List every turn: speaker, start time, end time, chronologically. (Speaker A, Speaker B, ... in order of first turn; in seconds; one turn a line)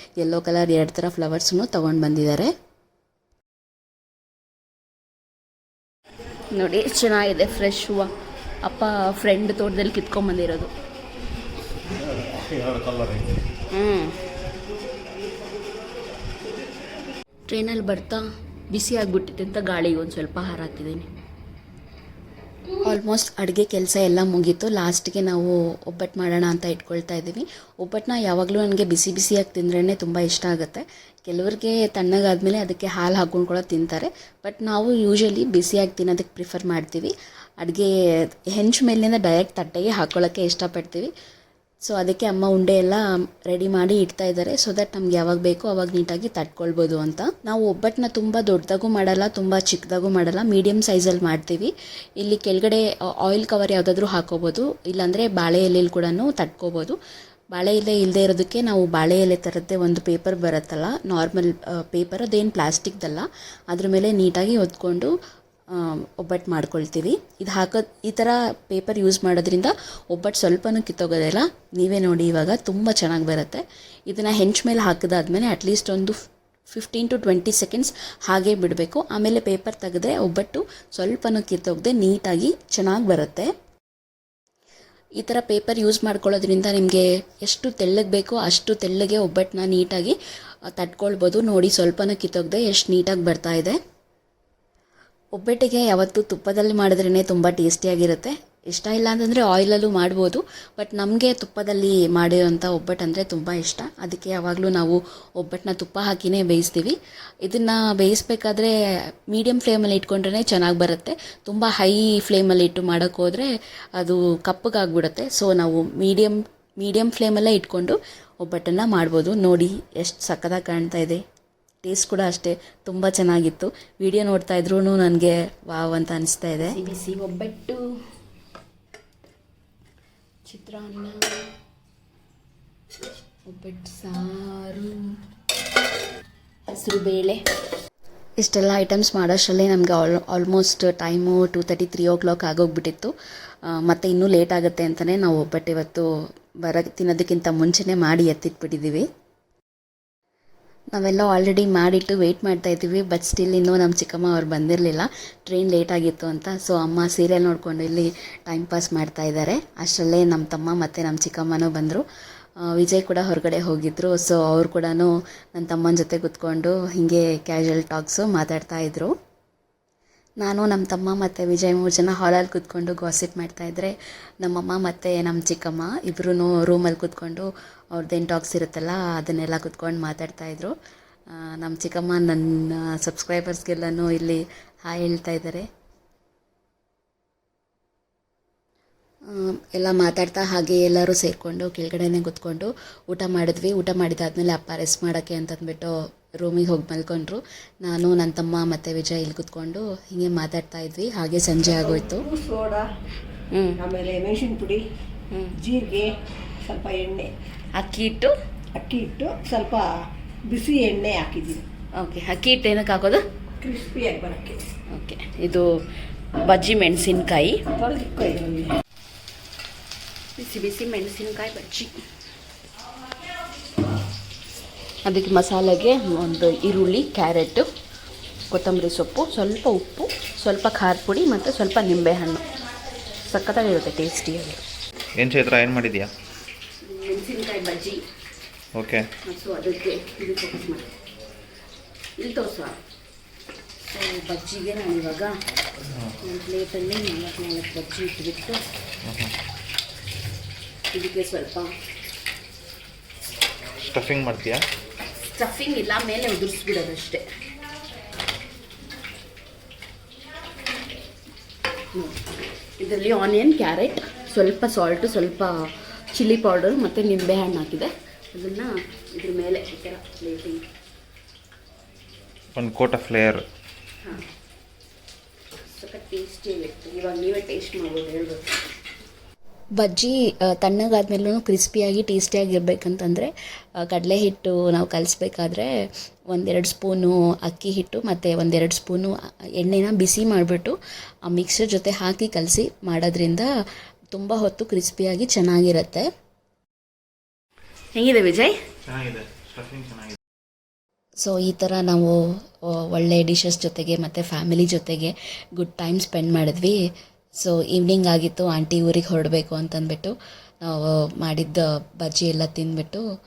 Speaker A: 0.2-2.5
Speaker B: 6.5-8.1
Speaker B: 8.7-10.7
Speaker C: 12.7-13.2
Speaker B: 13.7-14.1
Speaker B: 17.5-18.2
Speaker B: 18.7-21.1
Speaker A: 22.8-37.9
Speaker A: 38.5-41.1
Speaker A: 41.9-57.0
Speaker A: 57.5-65.1
Speaker A: 65.7-76.2
Speaker A: 76.7-83.5
Speaker A: 85.2-90.1
Speaker A: 90.7-93.8
Speaker A: 95.4-108.7
Speaker A: 109.3-121.2
Speaker A: 121.8-126.8
Speaker B: 126.6-127.8
Speaker B: 130.5-131.1
Speaker B: 133.6-134.9
Speaker B: 136.7-137.4
Speaker A: 138.4-143.1
Speaker A: 143.7-146.1
Speaker A: 146.6-149.1
Speaker A: 150.9-162.0
Speaker A: 162.7-169.1
Speaker A: 170.4-180.7
Speaker A: 181.3-185.7
Speaker A: 189.3-202.3
Speaker D: 201.6-202.9
Speaker D: 203.8-204.8
Speaker D: 205.6-206.1
Speaker D: 206.6-207.3
Speaker B: 207.8-208.3
Speaker D: 208.7-209.9
Speaker D: 210.5-211.6
Speaker B: 212.0-213.2
Speaker D: 213.6-214.7
Speaker B: 214.9-215.7
Speaker B: 216.5-217.6
Speaker D: 217.8-218.7
Speaker B: 220.4-221.9
Speaker B: 225.1-227.6
Speaker B: 228.5-232.4
Speaker B: 233.3-234.6
Speaker C: 235.2-236.1
Speaker B: 236.9-238.0
Speaker C: 238.8-239.1
Speaker B: 239.3-240.9
Speaker B: 242.2-242.7
Speaker B: 243.8-245.3
Speaker C: 245.9-246.2
Speaker B: 246.2-248.6
Speaker C: 249.0-249.3
Speaker B: 250.9-251.7
Speaker C: 253.9-254.6
Speaker B: 255.3-257.2
Speaker B: 262.8-265.5
Speaker B: 266.1-270.6
Speaker C: 272.5-273.4
Speaker B: 275.8-278.4
Speaker A: 279.8-285.7
Speaker A: 286.3-290.8
Speaker A: 291.3-293.5
Speaker A: 294.1-296.1
Speaker B: 298.0-298.5
Speaker C: 298.9-300.2
Speaker A: 301.2-306.8
Speaker A: 307.4-313.0